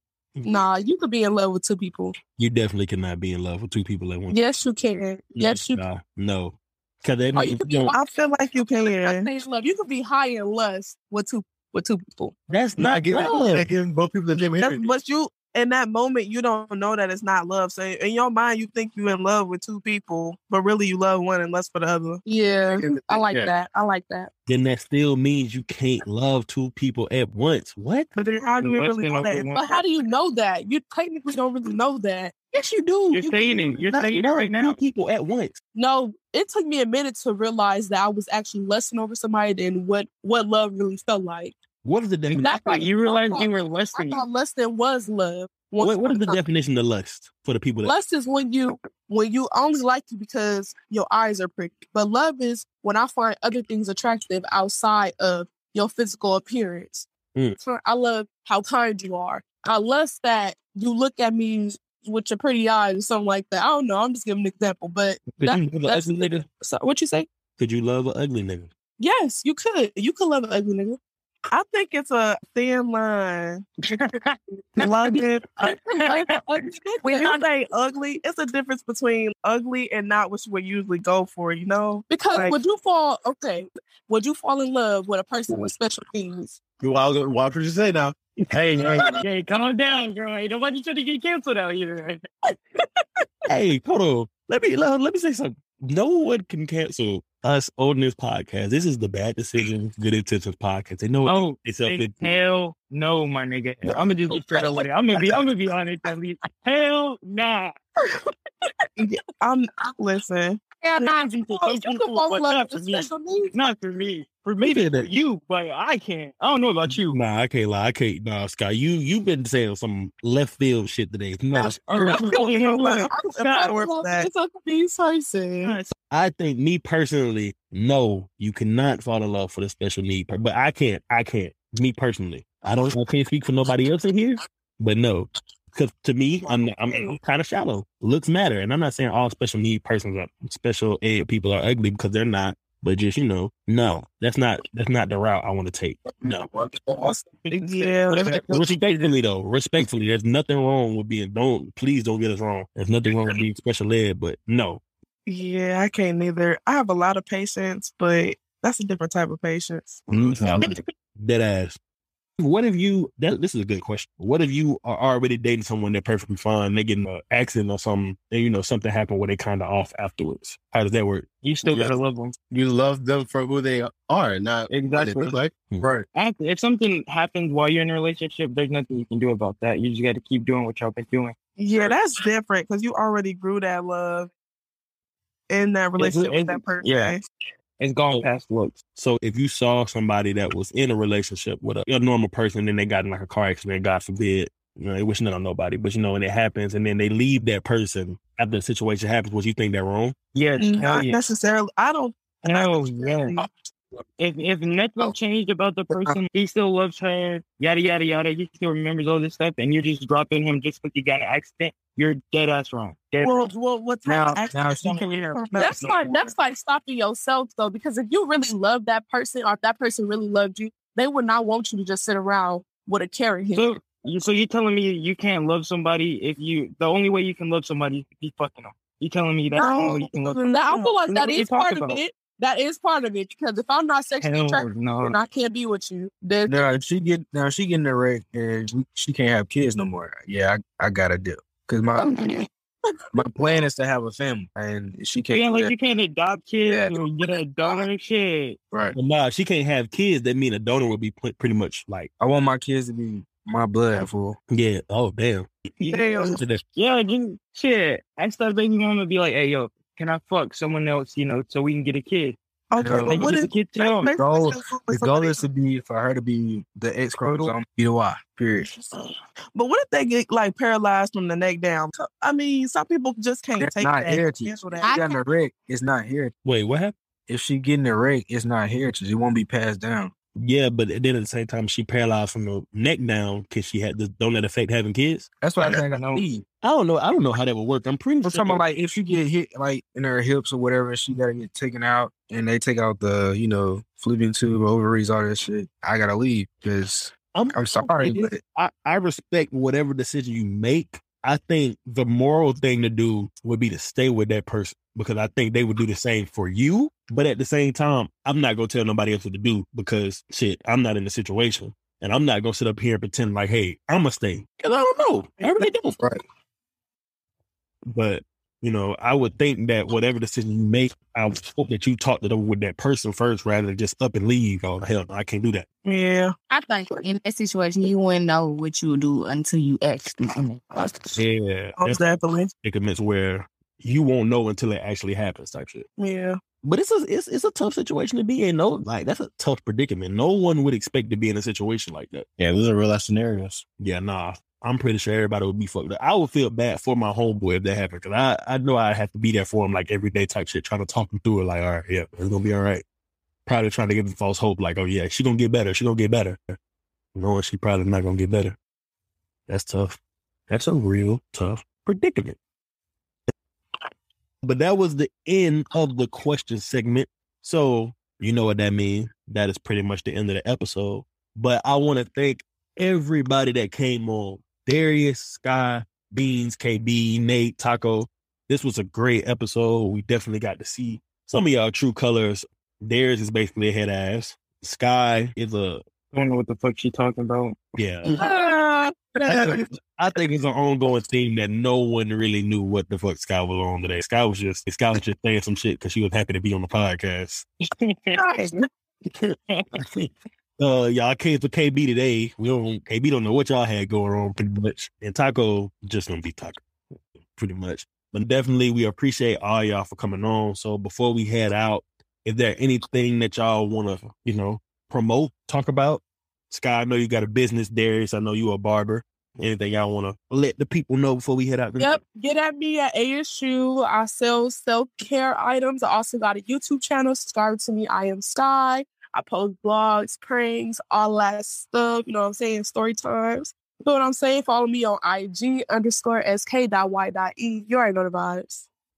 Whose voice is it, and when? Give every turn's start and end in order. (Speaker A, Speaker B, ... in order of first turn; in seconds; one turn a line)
Speaker A: 0.3-0.6
Speaker B: 0.4-2.1
Speaker A: 2.4-4.4
Speaker B: 4.3-5.8
Speaker A: 5.3-7.9
Speaker B: 7.3-8.0
Speaker C: 7.9-9.3
Speaker B: 9.0-12.3
Speaker A: 12.5-13.6
Speaker D: 12.8-14.9
Speaker C: 14.6-22.2
Speaker B: 22.2-24.3
Speaker D: 22.8-23.5
Speaker A: 24.5-28.1
Speaker C: 28.1-29.4
Speaker E: 28.6-29.6
Speaker B: 29.2-32.3
Speaker A: 32.5-35.6
Speaker E: 33.1-34.8
Speaker B: 35.7-41.5
Speaker A: 41.8-42.6
Speaker E: 42.4-44.2
Speaker B: 42.4-46.4
Speaker A: 45.8-47.9
Speaker B: 47.8-57.1
Speaker B: 57.6-66.1
Speaker A: 65.4-66.5
Speaker B: 66.6-67.3
Speaker A: 67.6-68.7
Speaker B: 69.0-71.0
Speaker C: 71.5-73.7
Speaker E: 73.9-76.4
Speaker C: 74.8-75.5
Speaker B: 76.0-77.4
Speaker C: 77.0-82.6
Speaker B: 82.1-86.5
Speaker D: 86.8-89.2
Speaker E: 89.1-92.2
Speaker A: 93.5-102.2
Speaker E: 101.2-107.7
Speaker C: 109.0-110.6
Speaker F: 110.8-111.5
Speaker B: 111.0-113.5
Speaker E: 111.5-117.2
Speaker A: 114.6-115.1
Speaker A: 116.9-122.3
Speaker E: 121.7-123.1
Speaker C: 122.3-124.3
Speaker B: 123.1-125.8
Speaker E: 125.6-125.9
Speaker A: 126.1-146.5
Speaker E: 147.5-148.3
Speaker C: 147.5-148.6
Speaker A: 148.2-154.8
Speaker C: 155.3-160.0
Speaker G: 160.1-160.7
Speaker A: 160.2-161.8
Speaker A: 162.4-171.3
Speaker E: 171.4-172.3
Speaker D: 172.5-176.1
Speaker E: 174.7-175.4
Speaker E: 176.1-181.3
Speaker C: 181.6-184.3
Speaker C: 185.5-187.2
Speaker E: 186.0-187.2
Speaker E: 187.8-188.8
Speaker A: 188.9-200.1
Speaker E: 200.3-201.2
Speaker C: 200.6-203.5
Speaker E: 202.4-203.4
Speaker E: 204.2-213.4
Speaker C: 213.2-216.2
Speaker G: 214.0-215.0
Speaker E: 214.8-215.9
Speaker B: 215.6-223.6
Speaker E: 223.5-232.0
Speaker B: 229.5-236.6
Speaker E: 234.2-235.2
Speaker G: 236.5-242.1
Speaker G: 243.1-245.7
Speaker E: 245.3-248.6
Speaker G: 246.7-246.9
Speaker A: 248.9-252.1
Speaker G: 252.2-254.4
Speaker A: 254.5-256.6
Speaker C: 255.9-256.4
Speaker E: 256.8-262.4
Speaker C: 262.7-265.4
Speaker G: 262.8-263.3
Speaker E: 262.9-264.1
Speaker G: 264.1-268.7
Speaker E: 267.2-267.5
Speaker C: 269.5-274.9
Speaker G: 273.6-276.3
Speaker F: 274.8-275.1
Speaker A: 276.4-276.9
Speaker G: 277.3-280.1
Speaker A: 280.4-285.3
Speaker G: 285.4-286.2
Speaker E: 285.9-286.2
Speaker A: 286.6-288.6
Speaker G: 288.2-298.4
Speaker A: 297.3-316.0
Speaker G: 315.4-316.2
Speaker A: 317.9-325.6
Speaker C: 325.8-326.3
Speaker F: 326.5-331.2
Speaker A: 331.2-332.0
Speaker C: 331.8-332.5
Speaker A: 332.6-335.9
Speaker C: 336.0-336.4
Speaker A: 336.6-342.2
Speaker D: 342.4-343.6
Speaker A: 343.8-352.8
Speaker A: 353.4-356.6
Speaker A: 357.1-358.6
Speaker A: 359.5-362.4
Speaker A: 364.4-385.8
Speaker E: 386.1-387.6
Speaker A: 387.7-388.4
Speaker A: 389.2-397.4
Speaker E: 397.8-398.2
Speaker A: 399.1-400.1
Speaker A: 400.6-406.6
Speaker A: 407.4-422.0
Speaker B: 421.8-438.6